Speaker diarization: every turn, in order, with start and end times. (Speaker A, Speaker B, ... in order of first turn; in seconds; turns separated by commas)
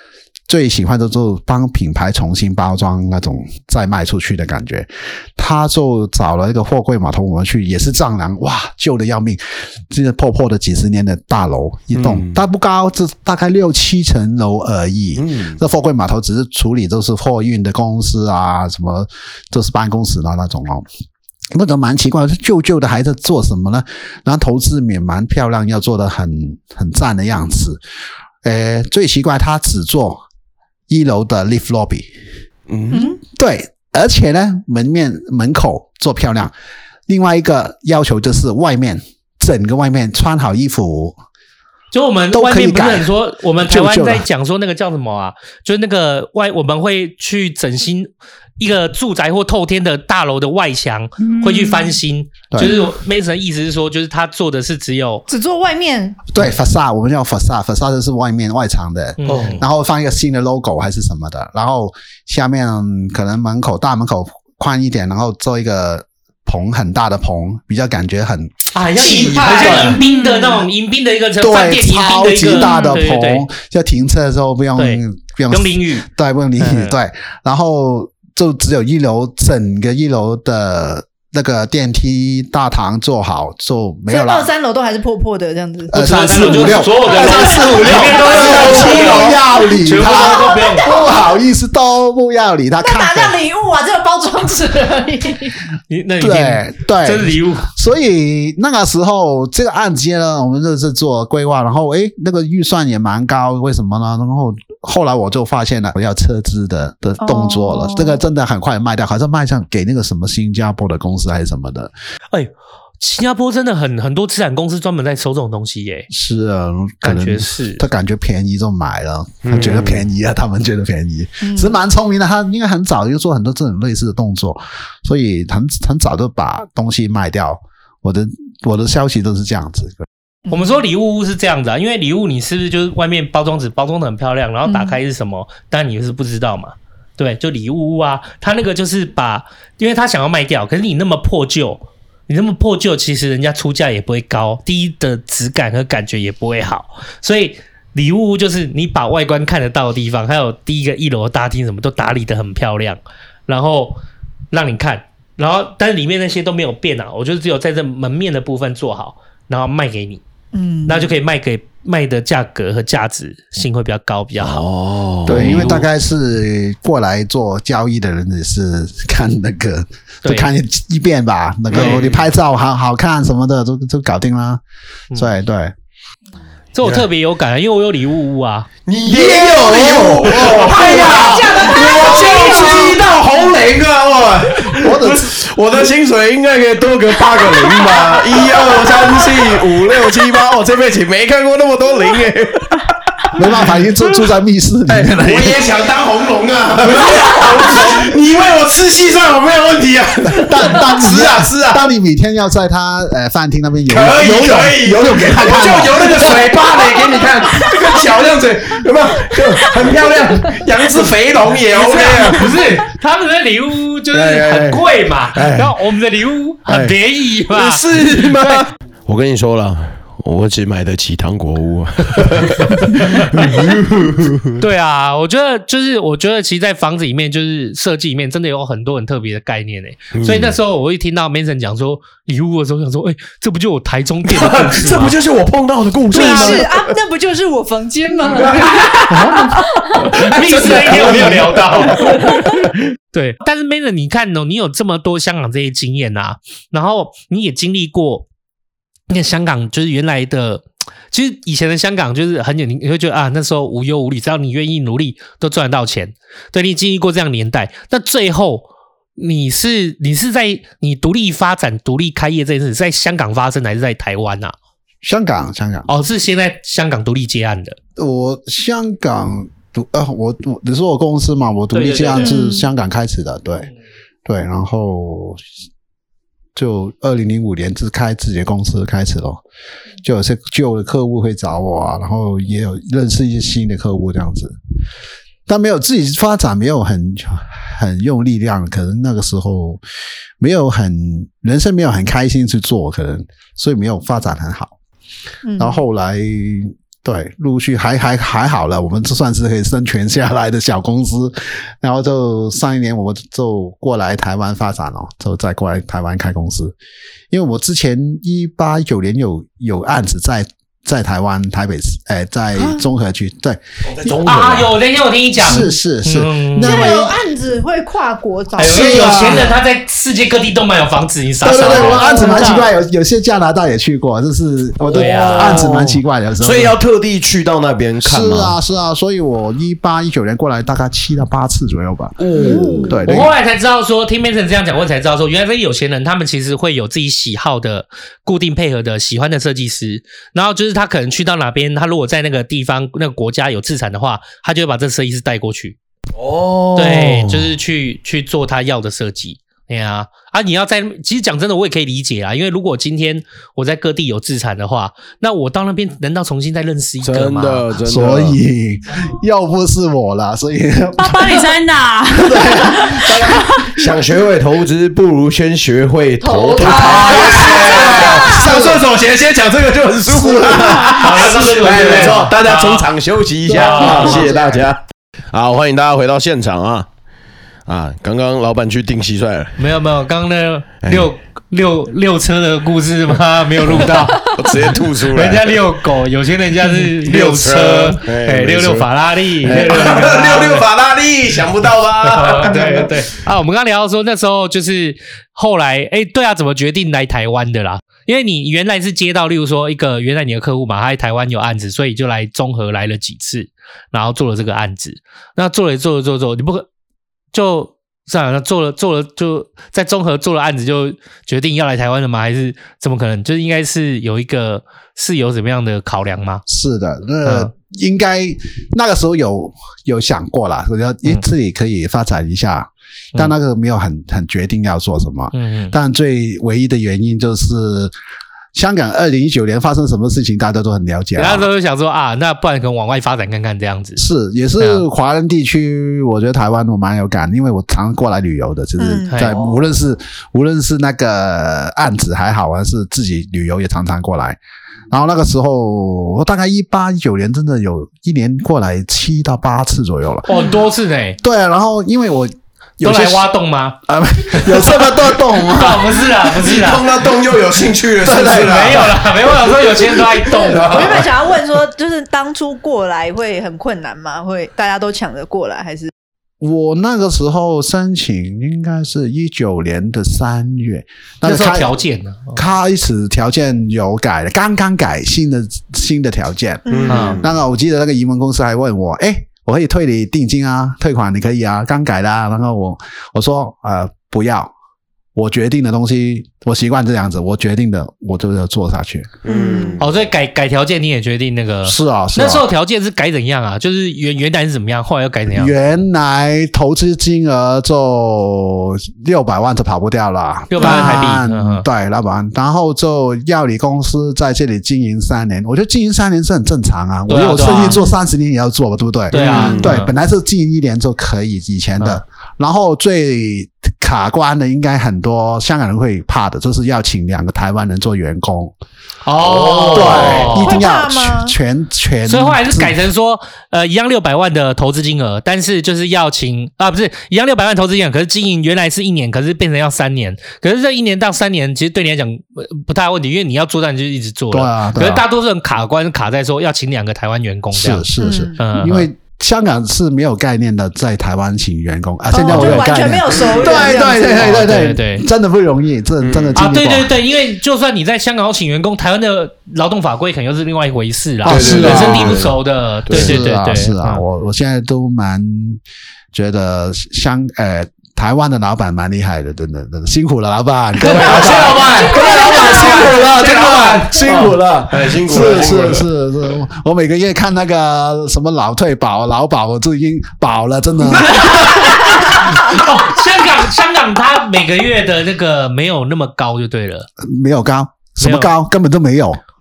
Speaker A: 0.5-20.9, Speaker B: 12.0-12.4, Speaker B: 15.2-15.6, Speaker A: 21.5-27.8, Speaker A: 28.4-30.2, Speaker A: 30.9-32.1, Speaker B: 32.7-33.1, Speaker C: 32.9-33.2, Speaker A: 33.2-36.5, Speaker A: 37.1-41.2, Speaker D: 41.9-55.2, Speaker A: 42.3-44.2, Speaker E: 51.2-51.9, Speaker C: 52.6-52.9, Speaker C: 55.3-56.2, Speaker A: 56.3-70.0, Speaker D: 59.2-59.6, Speaker D: 68.7-73.5, Speaker C: 69.0-70.0, Speaker E: 70.0-70.6, Speaker A: 71.4-84.5, Speaker D: 74.8-76.1, Speaker D: 76.6-77.0, Speaker C: 84.1-89.3, Speaker A: 85.9-93.3, Speaker D: 86.0-90.9, Speaker B: 88.2-89.3, Speaker C: 90.0-91.2, Speaker C: 92.8-95.6, Speaker D: 95.9-97.7, Speaker A: 96.2-111.9, Speaker C: 107.4-108.0, Speaker D: 112.3-116.1, Speaker A: 116.1-130.1, Speaker D: 117.0-117.8, Speaker B: 119.4-120.0, Speaker C: 121.4-121.7, Speaker C: 130.5-130.7, Speaker D: 130.5-154.0, Speaker C: 134.7-135.0, Speaker D: 154.5-160.2, Speaker C: 160.5-161.1, Speaker D: 160.9-164.6, Speaker B: 164.4-165.7, Speaker A: 165.3-174.6, Speaker D: 165.3-165.9, Speaker D: 170.2-170.5, Speaker B: 171.7-172.2, Speaker D: 171.7-172.0, Speaker A: 175.1-175.7, Speaker D: 176.8-178.7, Speaker B: 178.9-193.4, Speaker A: 179.2-181.7, Speaker C: 179.2-183.0, Speaker A: 184.7-185.3, Speaker A: 193.3-195.7, Speaker B: 194.9-201.8, Speaker A: 197.2-197.5, Speaker A: 200.3-206.5, Speaker B: 203.9-212.8, Speaker D: 211.8-218.7, Speaker B: 214.1-215.8, Speaker B: 216.7-224.6, Speaker D: 222.8-223.7, Speaker D: 224.6-235.2, Speaker B: 230.1-230.6, Speaker B: 234.3-236.9, Speaker C: 236.1-239.5, Speaker D: 236.2-236.6, Speaker B: 238.3-242.3, Speaker A: 239.1-239.6, Speaker D: 240.1-242.6, Speaker D: 243.1-248.3, Speaker D: 249.1-264.6, Speaker A: 265.0-265.9, Speaker D: 265.9-267.8, Speaker A: 268.0-273.7, Speaker D: 271.7-272.4, Speaker C: 272.2-272.6, Speaker A: 274.2-275.4, Speaker A: 276.6-279.4, Speaker A: 280.0-284.6, Speaker A: 285.5-289.8, Speaker A: 290.4-294.7, Speaker C: 295.4-295.8, Speaker A: 295.6-306.8, Speaker A: 307.3-314.5, Speaker B: 314.0-314.7, Speaker D: 314.2-317.0, Speaker A: 315.4-317.2, Speaker C: 316.6-319.5, Speaker D: 318.6-322.5, Speaker A: 318.6-319.6, Speaker A: 321.4-326.8, Speaker C: 321.7-322.6, Speaker B: 324.9-328.6, Speaker D: 324.9-325.7, Speaker A: 328.0-332.3, Speaker B: 332.2-333.2, Speaker C: 332.4-332.8, Speaker A: 332.8-333.3, Speaker D: 333.1-345.8, Speaker B: 346.1-347.5, Speaker D: 346.8-357.7, Speaker B: 357.0-358.4, Speaker A: 357.8-361.5, Speaker E: 361.0-363.7, Speaker A: 362.1-363.6, Speaker B: 363.7-374.8, Speaker C: 366.3-368.4, Speaker E: 366.6-367.1, Speaker A: 366.6-368.9, Speaker A: 370.1-371.2, Speaker D: 371.0-372.9, Speaker D: 373.5-374.3, Speaker A: 373.5-374.6, Speaker B: 375.3-376.9, Speaker B: 377.7-379.6, Speaker D: 379.6-390.7, Speaker B: 380.8-381.1, Speaker B: 383.6-385.7, Speaker B: 386.6-393.1, Speaker D: 392.0-406.7, Speaker D: 407.3-416.4, Speaker A: 416.5-427.9, Speaker D: 417.2-417.5, Speaker D: 425.3-425.7, Speaker A: 428.5-431.5, Speaker D: 431.2-434.0, Speaker A: 434.0-444.4, Speaker C: 438.8-439.3, Speaker D: 439.1-439.4, Speaker A: 444.9-450.4, Speaker D: 450.3-451.2, Speaker A: 451.2-453.3, Speaker D: 452.8-453.8, Speaker A: 453.9-456.0, Speaker D: 454.3-456.9, Speaker B: 456.3-461.1, Speaker A: 458.0-458.9, Speaker D: 458.4-461.1, Speaker C: 460.5-465.9, Speaker A: 466.4-471.7, Speaker D: 471.2-472.4, Speaker A: 472.4-484.5, Speaker B: 476.7-477.3, Speaker D: 476.9-477.2, Speaker A: 485.1-489.1, Speaker B: 489.2-489.9, Speaker C: 489.3-489.8, Speaker D: 489.8-495.5, Speaker A: 491.6-492.5, Speaker A: 495.3-518.5, Speaker D: 500.5-501.7, Speaker D: 507.1-507.8, Speaker D: 509.1-509.9, Speaker B: 509.1-509.8, Speaker D: 519.1-520.6, Speaker B: 519.2-520.4, Speaker A: 519.7-522.8, Speaker C: 520.2-521.4, Speaker D: 522.1-538.9, Speaker A: 534.3-535.0, Speaker A: 537.5-547.0, Speaker C: 538.0-538.4, Speaker C: 542.1-544.4, Speaker D: 543.8-545.1, Speaker B: 546.0-546.4, Speaker D: 546.4-554.0, Speaker A: 551.2-552.2, Speaker B: 551.2-553.2, Speaker A: 552.9-555.6, Speaker A: 556.1-572.6, Speaker D: 560.8-564.3, Speaker B: 560.9-565.9, Speaker D: 571.0-576.9, Speaker A: 577.0-579.2, Speaker D: 578.0-578.3